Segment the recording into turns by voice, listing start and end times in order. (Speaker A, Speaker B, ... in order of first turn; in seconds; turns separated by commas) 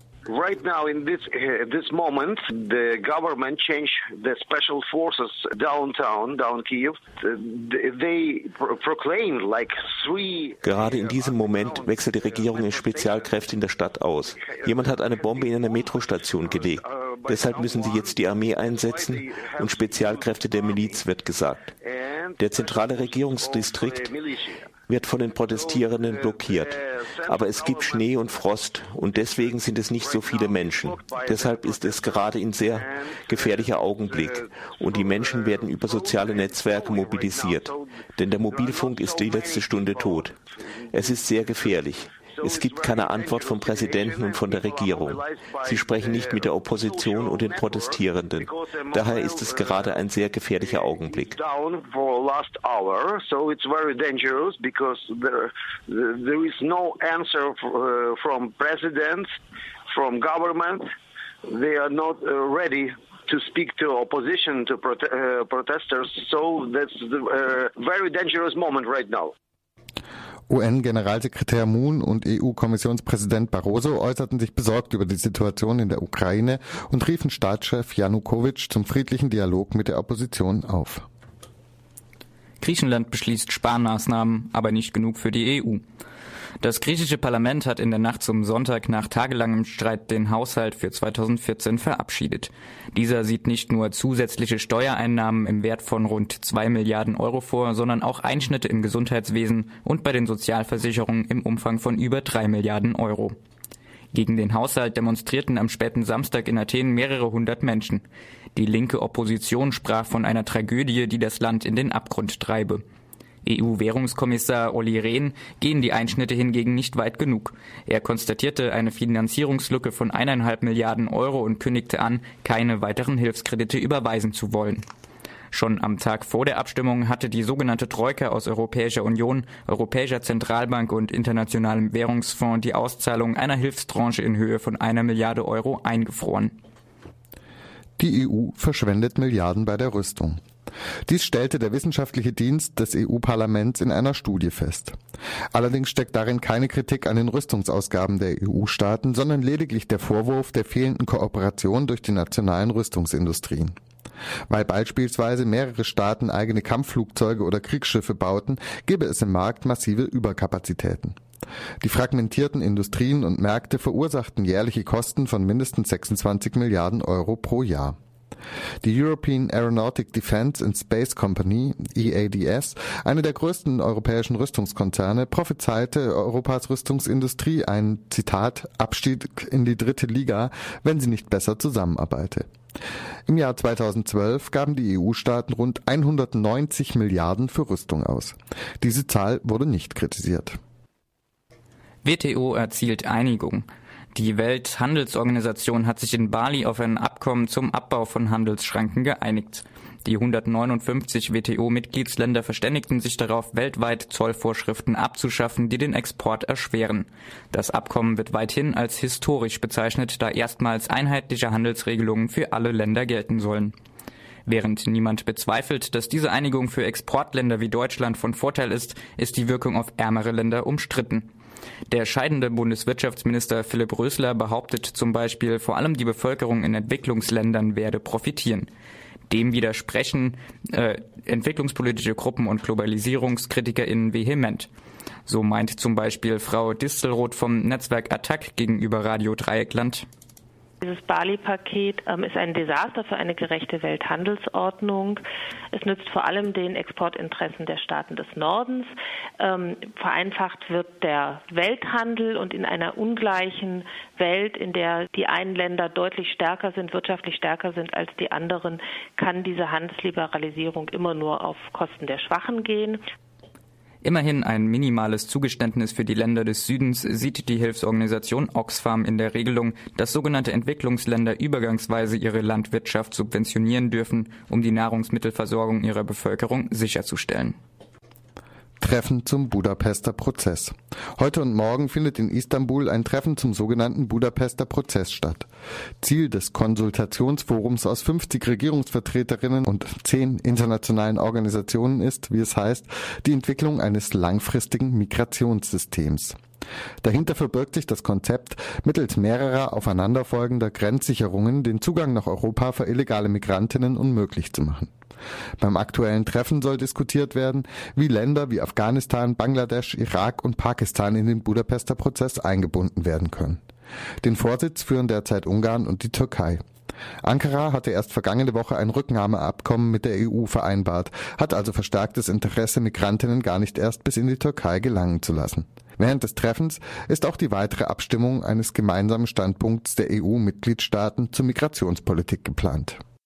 Speaker A: 0.3-13.5, Speaker B: 10.6-21.7, Speaker A: 14.2-21.0, Speaker A: 21.8-24.7, Speaker B: 22.4-24.1, Speaker B: 24.9-40.4, Speaker A: 25.5-28.3, Speaker A: 29.3-40.3, Speaker B: 40.9-51.4, Speaker A: 40.9-41.8, Speaker A: 42.3-50.0, Speaker A: 50.6-59.3, Speaker A: 59.9-60.9, Speaker A: 61.5-69.3, Speaker C: 70.5-81.1, Speaker D: 82.6-85.8, Speaker D: 86.6-103.4, Speaker D: 104.1-108.0, Speaker D: 108.5-112.8, Speaker D: 113.4-124.8, Speaker D: 125.5-136.6, Speaker C: 138.0-140.4, Speaker C: 141.1-145.0, Speaker C: 145.5-153.8, Speaker C: 154.5-161.2, Speaker C: 161.8-168.0, Speaker C: 168.8-182.5, Speaker C: 183.3-190.6, Speaker D: 192.0-213.7, Speaker D: 214.5-221.3, Speaker D: 221.9-228.7, Speaker D: 229.3-234.7, Speaker D: 235.3-240.1, Speaker E: 240.8-245.2, Speaker E: 245.7-248.9, Speaker E: 249.4-263.0, Speaker D: 264.0-277.6, Speaker C: 278.8-285.5, Speaker C: 286.0-296.4, Speaker C: 297.0-304.9, Speaker C: 305.6-313.6, Speaker C: 314.2-316.6, Speaker C: 317.2-333.0